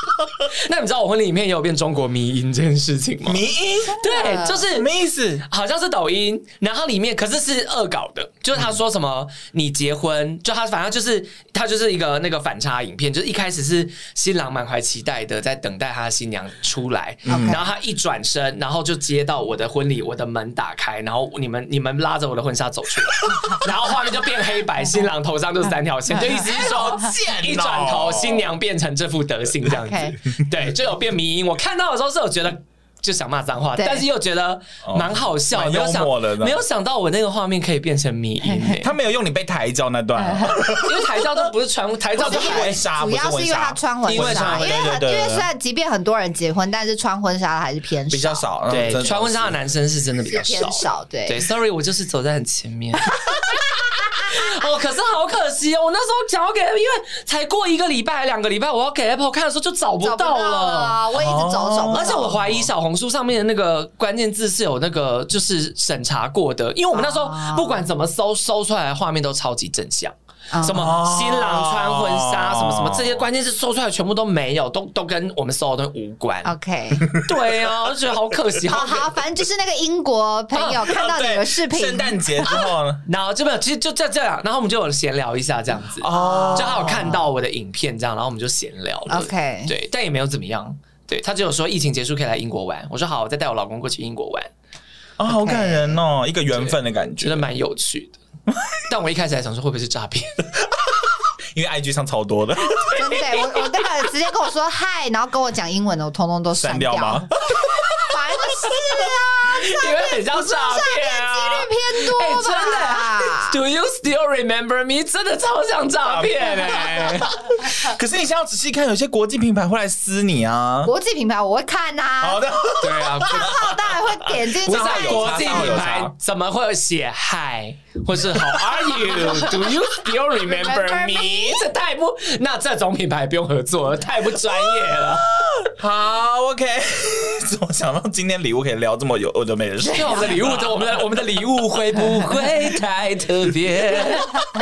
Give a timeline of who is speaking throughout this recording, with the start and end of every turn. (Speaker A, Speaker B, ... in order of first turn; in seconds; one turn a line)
Speaker A: 0.5-3.5
Speaker B: 3.3-4.0
Speaker A: 4.0-4.9
Speaker C: 4.0-4.6
Speaker B: 4.6-5.5
Speaker A: 5.5-38.9
Speaker B: 17.3-17.6
Speaker C: 17.3-17.7
Speaker B: 26.3-28.5
Speaker C: 29.7-30.2
Speaker C: 33.8-34.1
Speaker B: 34.9-36.6
Speaker B: 38.7-41.5
Speaker C: 40.2-40.6
Speaker A: 40.7-42.8
Speaker B: 42.2-45.5
Speaker C: 42.2-48.5
Speaker A: 44.1-44.8
Speaker B: 48.1-49.6
Speaker A: 48.7-61.0
Speaker C: 50.3-51.4
Speaker C: 60.0-62.7
Speaker B: 61.1-62.2
Speaker A: 61.9-76.5
Speaker C: 66.9-67.8
Speaker C: 70.5-71.0
Speaker B: 70.7-73.2
Speaker C: 76.5-77.1
Speaker B: 77.1-77.4
Speaker A: 77.1-79.2
Speaker C: 78.7-82.6
Speaker A: 80.5-80.9
Speaker B: 80.9-83.0
Speaker A: 83.1-94.5
Speaker B: 86.0-87.2
Speaker C: 86.1-87.3
Speaker C: 89.1-89.7
Speaker B: 95.2-97.5
Speaker C: 95.3-96.0
Speaker A: 96.5-98.2
Speaker B: 98.5-98.8
Speaker A: 98.9-100.5
Speaker B: 100.8-103.0
Speaker A: 102.6-103.6
Speaker C: 102.9-107.3
Speaker B: 106.6-108.2
Speaker C: 108.0-113.6
Speaker B: 108.7-109.0
Speaker A: 109.5-117.4
Speaker B: 116.0-120.9
Speaker C: 120.8-122.4
Speaker B: 122.2-126.1
Speaker A: 122.8-123.6
Speaker C: 123.2-125.8
Speaker A: 124.7-135.3
Speaker B: 128.2-129.7
Speaker C: 130.4-131.6
Speaker B: 135.6-141.2
Speaker A: 139.8-144.3